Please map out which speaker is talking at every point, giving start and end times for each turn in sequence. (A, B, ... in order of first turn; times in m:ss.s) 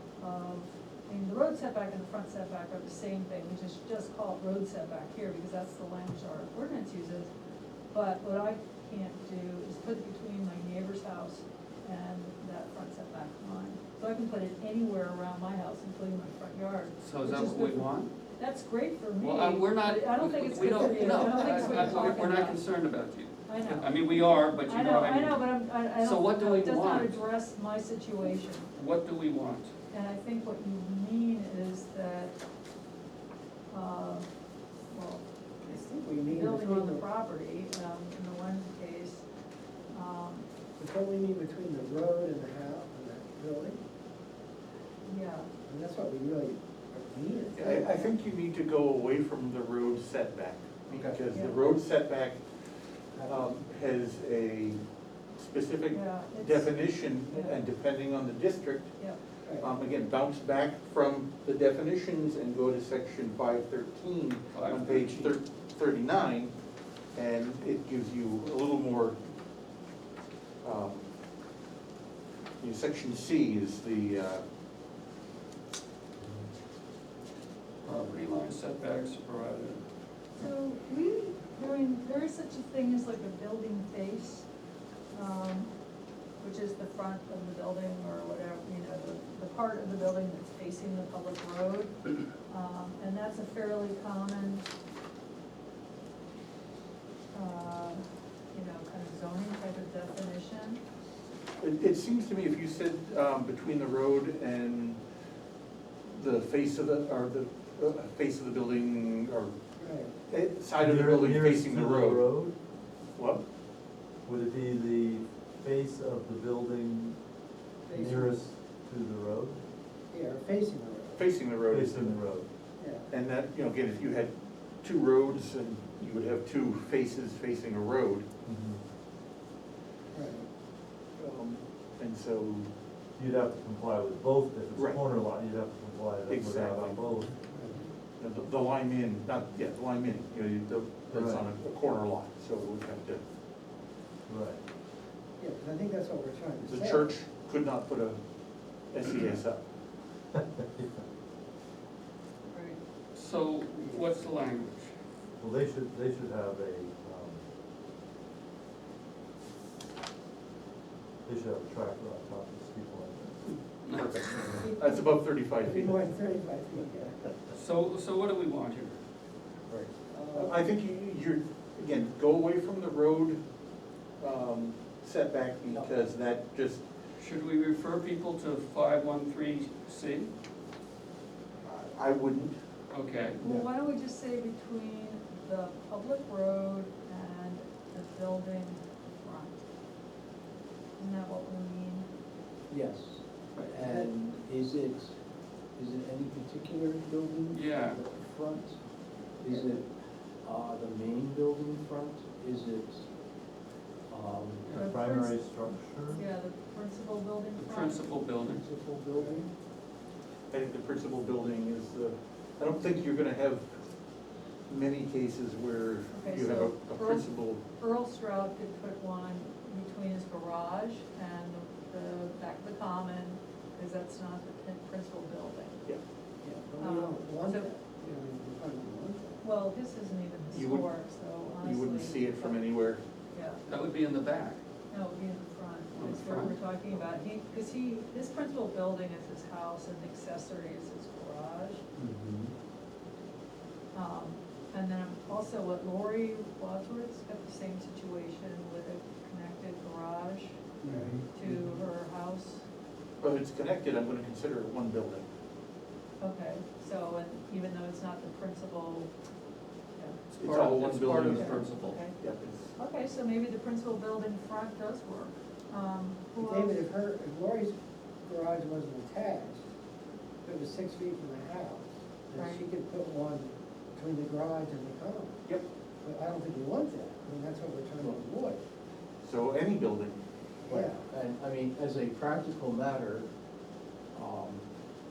0:00.2-0:07.3 A
0:07.9-0:22.6 A
0:17.0-0:18.1 B
0:19.2-0:27.2 B
0:23.5-0:28.7 A
0:28.7-0:29.7 B
0:29.9-0:32.3 A
0:33.7-0:34.3 A
0:34.9-0:35.2 A
0:35.6-0:37.0 C
0:36.3-0:39.2 A
0:39.9-0:40.5 A
0:40.8-0:43.8 C
0:45.0-0:45.5 A
0:45.7-0:48.0 C
0:47.6-0:52.4 D
0:47.6-0:48.1 A
0:51.3-0:51.6 A
0:53.2-0:54.8 D
0:55.4-0:58.9 D
0:55.9-0:56.7 A
0:59.4-0:59.7 C
0:59.6-1:06.5 D
1:04.5-1:05.3 B
1:07.1-1:09.2 D
1:10.6-1:11.0 D
1:12.6-1:14.4 D
1:17.8-1:19.8 B
1:20.4-1:24.4 A
1:25.1-1:25.7 A
1:26.4-1:32.0 A
1:32.5-1:34.7 A
1:37.3-1:40.8 A
1:41.6-1:45.0 D
1:46.1-1:49.5 D
1:49.8-1:50.2 C
1:50.3-1:52.2 D
1:50.8-1:52.5 E
1:53.2-1:53.4 D
1:54.2-1:57.2 E
1:57.9-1:58.3 C
1:57.9-1:59.6 E
2:00.1-2:01.3 C
2:01.2-2:02.2 D
2:01.7-2:02.5 E
2:02.8-2:03.1 C
2:03.1-2:08.3 D
2:08.5-2:08.8 E
2:10.1-2:10.5 C
2:11.2-2:12.7 D
2:13.2-2:17.3 E
2:14.8-2:15.0 D
2:16.3-2:17.0 D
2:17.5-2:17.9 C
2:18.2-2:23.2 D
2:21.1-2:21.4 E
2:24.3-2:24.6 E
2:25.4-2:27.2 C
2:26.6-2:28.2 D
2:28.9-2:29.6 D
2:30.3-2:31.0 E
2:32.5-2:32.8 A
2:33.1-2:34.9 B
2:35.4-2:37.4 E
2:41.2-2:43.5 E
2:43.8-2:44.1 B
2:43.9-2:46.1 D
2:44.6-2:47.3 C
2:47.5-2:49.0 B
2:49.7-2:53.4 D
2:50.1-2:50.7 C
2:54.2-2:56.8 D
2:55.7-2:56.0 F
2:57.2-3:00.3 B
3:01.6-3:02.5 D
3:02.9-3:03.4 B
3:03.4-3:09.6 A
3:11.0-3:12.1 A
3:12.7-3:15.2 F
3:13.8-3:14.1 C
3:15.8-3:18.8 F
3:17.5-3:18.0 B
3:19.4-3:19.8 F
3:19.4-3:19.8 C
3:20.4-3:23.1 F
3:24.1-3:24.7 F
3:24.7-3:26.2 E
3:24.7-3:25.5 A
3:26.1-3:28.0 A
3:27.6-3:28.6 B
3:28.4-3:29.4 F
3:29.1-3:29.4 C
3:30.5-3:33.8 D
3:34.7-3:37.6 D
3:36.1-3:45.8 A
3:46.4-3:49.4 C
3:46.8-3:47.7 A
3:49.4-3:52.6 A
3:50.5-3:51.0 D
3:51.6-3:53.0 D
3:53.3-3:53.6 A
3:53.7-3:54.6 B
3:54.9-4:01.8 A
3:55.9-3:56.6 B
4:02.0-4:02.5 F
4:03.9-4:10.6 A
4:10.8-4:11.8 F
4:10.9-4:11.2 C
4:11.3-4:12.6 A
4:13.2-4:15.2 D
4:16.2-4:19.1 A
4:20.4-4:21.6 D
4:20.4-4:22.0 B
4:21.3-4:22.2 A
4:22.2-4:22.7 D
4:22.8-4:26.8 A
4:26.4-4:29.6 C
4:30.4-4:35.4 C
4:32.3-4:32.6 A
4:36.0-4:38.6 C
4:39.2-4:40.2 D
4:40.7-4:41.1 C
4:40.7-4:43.3 F
4:44.1-4:44.6 F